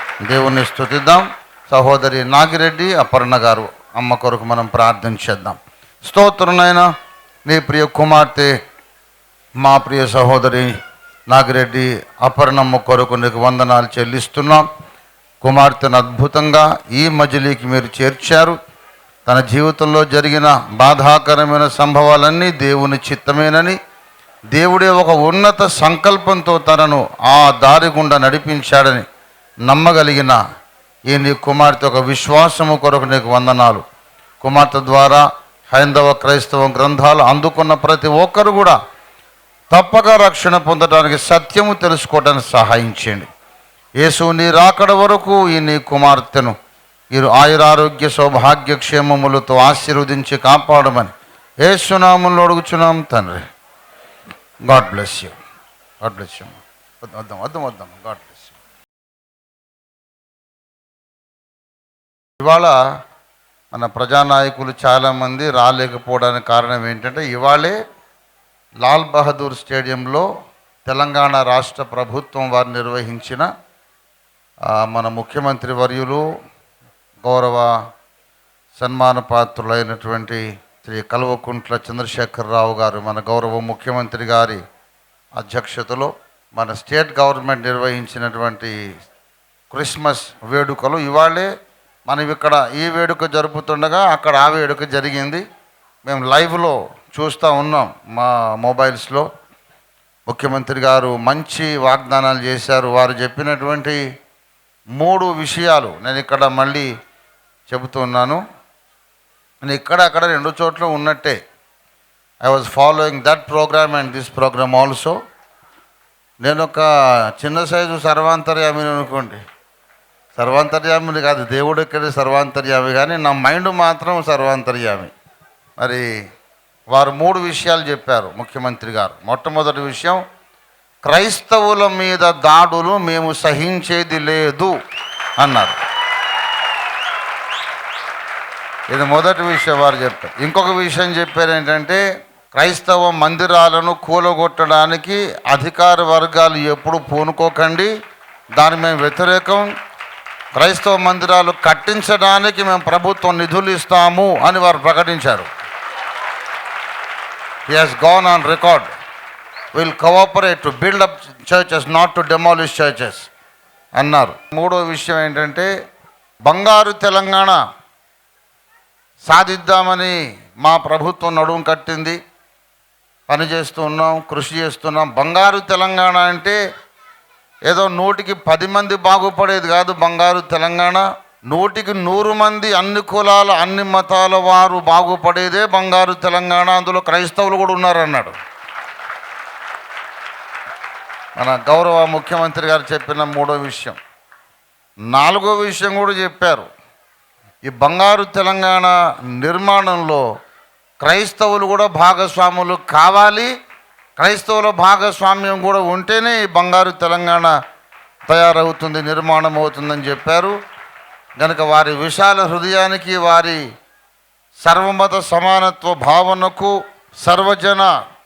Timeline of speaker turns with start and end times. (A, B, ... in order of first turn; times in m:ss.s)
0:00.3-0:06.9 A
0:07.5-0:08.5 A
0:09.6-0:10.8 A
0:11.3-0:14.7 A
0:15.4-0:18.6 A
0:19.3-0:23.8 A
0:24.6-0:29.0 A
0:29.7-0:30.4 A
0:31.1-0:33.8 A
0:34.4-0:38.8 A
0:39.7-0:43.3 A
0:44.0-0:46.6 A
0:47.1-0:51.1 A
0:51.6-0:53.4 A
0:54.7-0:55.4 A
0:56.0-0:58.6 A
1:02.4-1:02.8 A
1:03.7-1:07.8 A
1:08.8-1:10.3 A
1:10.8-1:13.5 A
1:14.7-1:16.2 A
1:17.2-1:17.7 A
1:18.8-1:24.6 A
1:25.4-1:28.8 A
1:29.7-1:31.5 A
1:32.1-1:35.4 A
1:36.0-1:39.3 A
1:40.3-1:44.0 A
1:45.0-1:46.9 A
1:47.7-1:48.4 A
1:49.6-1:51.4 A
1:52.4-1:55.2 A
1:56.4-1:59.4 A
2:00.4-2:05.1 A
2:05.8-2:06.1 A
2:06.9-2:10.2 A
2:11.1-2:14.8 A
2:15.4-2:15.8 A
2:18.9-2:22.0 A
2:22.5-2:27.9 A
2:28.6-2:29.7 A
2:30.6-2:35.5 A
2:37.7-2:38.9 A
2:39.8-2:43.3 A
2:44.0-2:45.7 A
2:46.5-2:47.6 A
2:49.2-2:52.2 A
2:53.3-2:56.6 A
2:57.7-3:08.4 A
3:11.4-3:14.0 A
3:15.1-3:16.7 A
3:17.6-3:20.2 A
3:21.0-3:23.5 A
3:24.2-3:27.6 A
3:28.3-3:30.6 A
3:31.4-3:33.6 A
3:34.6-3:37.9 A